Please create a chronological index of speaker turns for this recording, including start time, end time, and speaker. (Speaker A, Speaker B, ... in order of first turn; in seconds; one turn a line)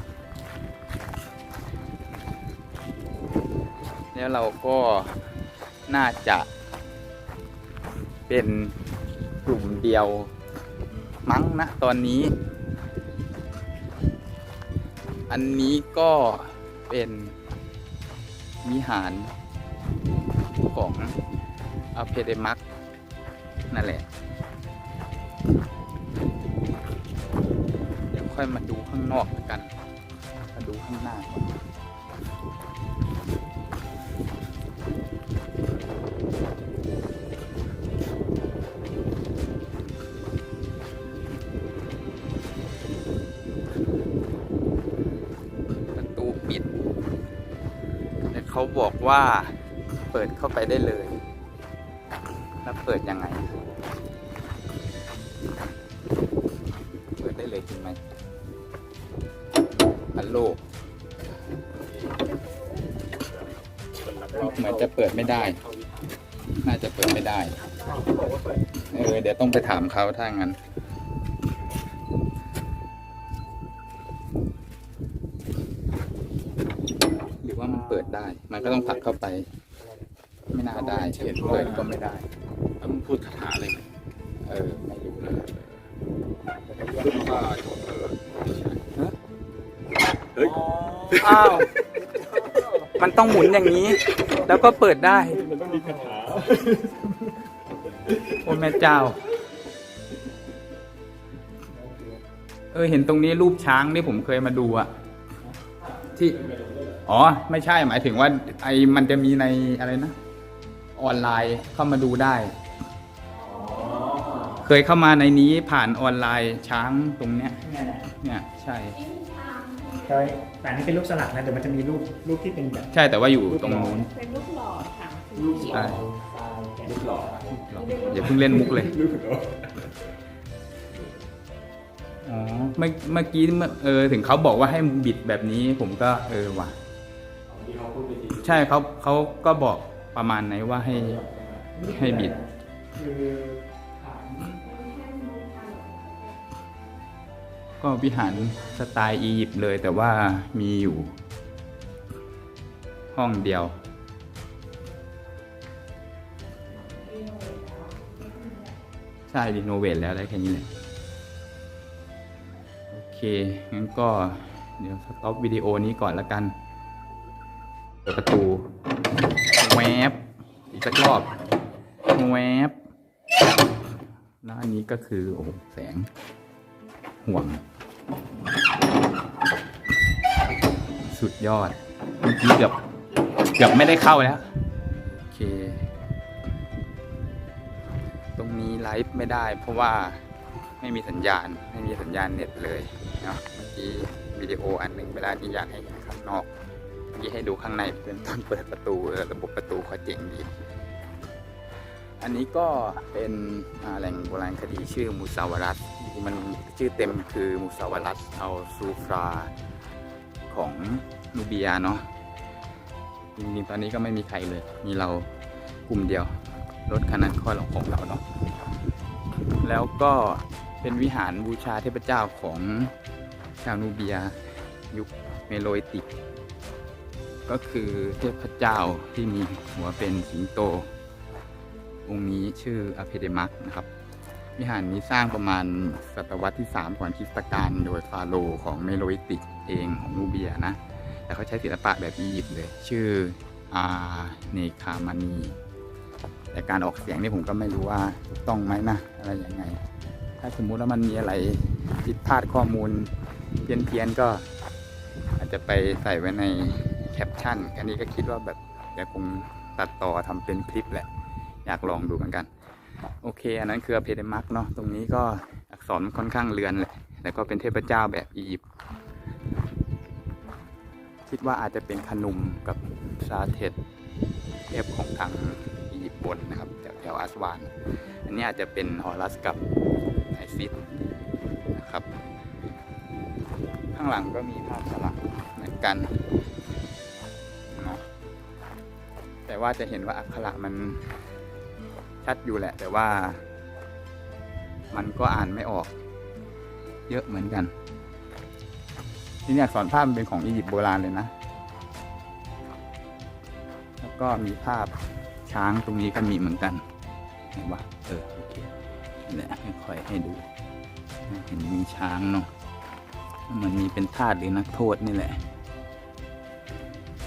Speaker A: 4.1-5.3
Speaker A: 5.9-6.5
Speaker A: 8.3-8.8
Speaker A: 9.4-10.3
Speaker A: 11.3-12.3
Speaker A: 15.3-17.4
Speaker A: 18.6-19.3
Speaker A: 20.7-21.2
Speaker A: 21.9-22.6
Speaker A: 23.7-24.1
Speaker A: 28.1-29.7
Speaker A: 30.4-31.6
Speaker A: 45.9-46.7
Speaker A: 48.3-49.6
Speaker A: 50.1-51.2
Speaker A: 52.6-53.6
Speaker A: 57.2-58.0
Speaker A: 60.1-60.6
Speaker B: 64.1-64.5
Speaker A: 64.3-65.6
Speaker A: 66.6-67.7
Speaker A: 68.8-70.6
Speaker A: 77.4-79.5
Speaker A: 80.5-82.3
Speaker B: 81.3-81.8
Speaker A: 82.8-83.6
Speaker B: 82.8-83.8
Speaker A: 84.4-85.8
Speaker B: 87.0-88.2
Speaker A: 88.7-89.2
Speaker B: 90.4-91.0
Speaker A: 91.1-91.7
Speaker A: 93.0-95.4
Speaker C: 95.4-97.0
Speaker B: 95.4-96.6
Speaker A: 98.3-99.2
Speaker C: 101.8-102.2
Speaker A: 102.7-104.9
Speaker A: 106.1-106.4
Speaker A: 107.0-110.2
Speaker A: 111.0-112.5
Speaker D: 113.4-114.6
Speaker C: 113.5-114.5
Speaker A: 114.6-119.0
Speaker C: 117.6-118.1
Speaker D: 119.0-120.3
Speaker C: 120.1-122.9
Speaker A: 122.9-124.1
Speaker C: 123.5-124.1
Speaker D: 124.1-125.9
Speaker C: 125.4-128.5
Speaker A: 125.7-126.1
Speaker B: 126.9-127.3
Speaker A: 127.7-129.0
Speaker D: 127.7-128.7
Speaker B: 128.9-129.4
Speaker A: 132.2-136.8
Speaker C: 137.5-138.3
Speaker A: 138.4-141.2
Speaker C: 141.3-144.6
Speaker A: 141.8-142.4
Speaker D: 144.6-146.4
Speaker A: 147.8-151.2
Speaker A: 153.1-153.7
Speaker D: 156.8-158.7
Speaker A: 159.3-160.7
Speaker A: 162.9-166.6
Speaker A: 168.1-168.7
Speaker A: 169.6-171.3
Speaker A: 172.1-172.8
Speaker A: 174.4-176.1
Speaker A: 177.2-177.6
Speaker A: 181.1-182.8
Speaker A: 183.6-184.5
Speaker A: 185.2-185.9
Speaker A: 188.4-190.2
Speaker A: 190.8-196.5
Speaker A: 197.1-200.5
Speaker A: 202.2-209.5
Speaker A: 210.5-212.1
Speaker A: 213.4-215.3
Speaker A: 215.9-216.4
Speaker A: 216.9-218.2
Speaker A: 219.5-222.9
Speaker A: 223.6-226.1
Speaker A: 227.5-230.9
Speaker A: 232.1-233.9
Speaker A: 234.6-245.6
Speaker A: 246.5-249.8
Speaker A: 250.4-253.1
Speaker A: 253.6-254.5
Speaker A: 255.4-261.1
Speaker A: 261.6-262.5
Speaker A: 263.2-268.6
Speaker A: 271.2-273.8
Speaker A: 274.7-279.6
Speaker A: 280.3-280.8
Speaker A: 281.7-282.1
Speaker A: 283.9-286.2
Speaker A: 287.7-288.0
Speaker A: 289.5-291.1
Speaker A: 292.2-293.4
Speaker A: 294.9-295.9
Speaker A: 297.1-297.7
Speaker A: 299.5-301.3
Speaker A: 304.0-304.9
Speaker A: 305.5-306.9
Speaker A: 307.5-308.7
Speaker A: 309.3-310.5
Speaker A: 311.3-312.5
Speaker A: 313.5-315.4